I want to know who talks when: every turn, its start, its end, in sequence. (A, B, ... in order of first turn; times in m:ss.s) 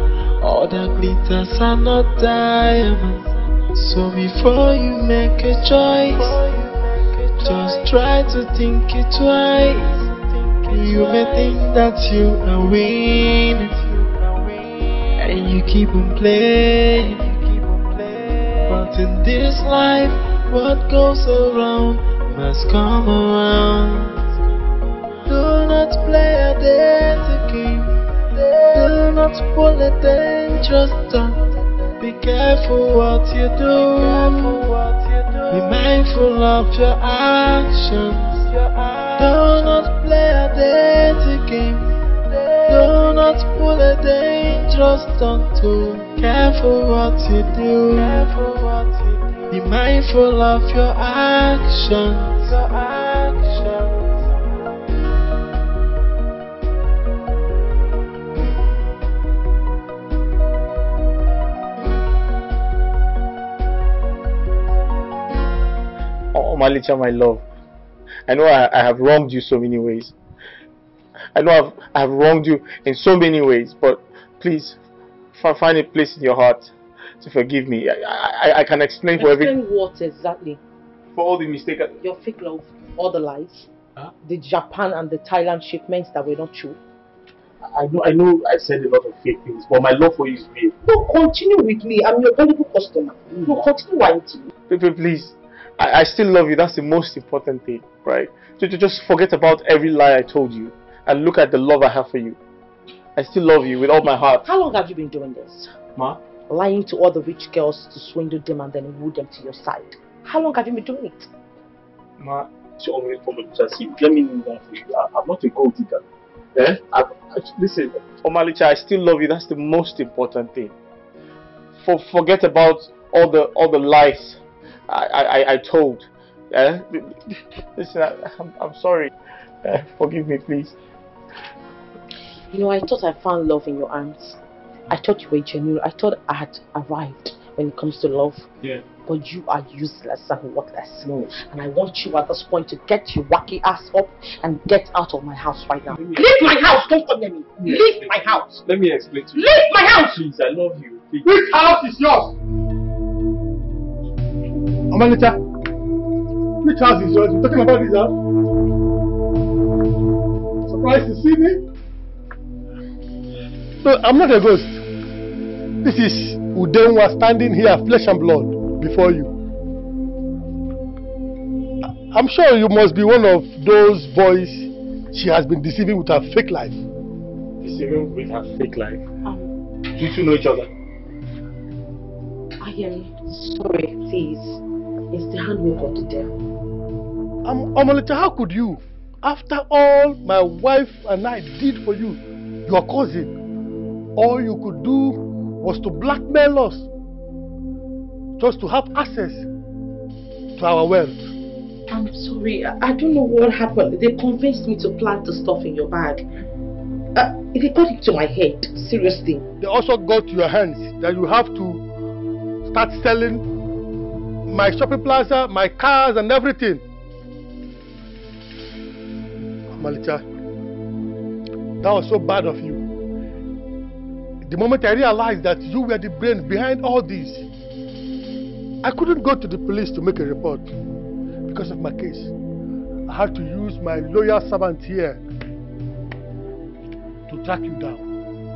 0:00.4-0:14.3 A
0:15.2-0:24.2 A
0:25.2-0:31.4 A
0:32.0-0:34.8 A
0:35.5-0:38.6 A
0:39.1-0:42.0 A
0:42.6-0:48.9 A
0:49.5-0:54.2 A
1:06.3-1:07.4 B
1:08.3-1:10.2 B
1:11.4-1:14.8 B
1:15.3-1:19.6 B
1:19.2-1:20.6 C
1:21.2-1:22.0 B
1:22.0-1:23.7 C
1:24.2-1:26.8 C
1:27.6-1:30.7 B
1:30.8-1:34.5 C
1:34.7-1:42.4 B
1:43.2-1:44.4 B
1:44.5-1:45.7 C
1:46.5-1:51.3 C
1:52.2-1:56.0 B
1:56.6-2:00.7 B
2:01.8-2:09.1 B
2:09.6-2:10.8 B
2:12.5-2:18.5 C
2:19.0-2:28.6 C
2:27.6-2:28.0 B
2:28.7-2:31.5 B
2:29.4-2:30.2 C
2:31.2-2:32.3 D
2:34.9-2:35.4 D
2:36.6-2:38.1 D
2:40.7-2:41.6 D
2:43.8-2:44.8 D
2:45.8-2:49.3 D
2:52.1-2:56.8 D
2:57.6-2:59.0 B
3:00.0-3:00.7 B
3:02.6-3:06.4 C
3:07.4-3:13.3 D
3:14.2-3:16.9 D
3:18.4-3:19.5 D
3:20.6-3:21.3 D
3:21.9-3:26.2 C
3:27.2-3:29.4 C
3:29.6-3:31.8 D
3:32.7-3:33.4 D
3:34.5-3:36.8 D
3:39.8-3:40.2 D
3:41.8-3:42.8 D
3:44.4-3:47.5 D
3:48.8-3:50.7 D
3:51.5-3:52.3 D
3:53.1-3:55.2 D
3:57.3-3:58.0 D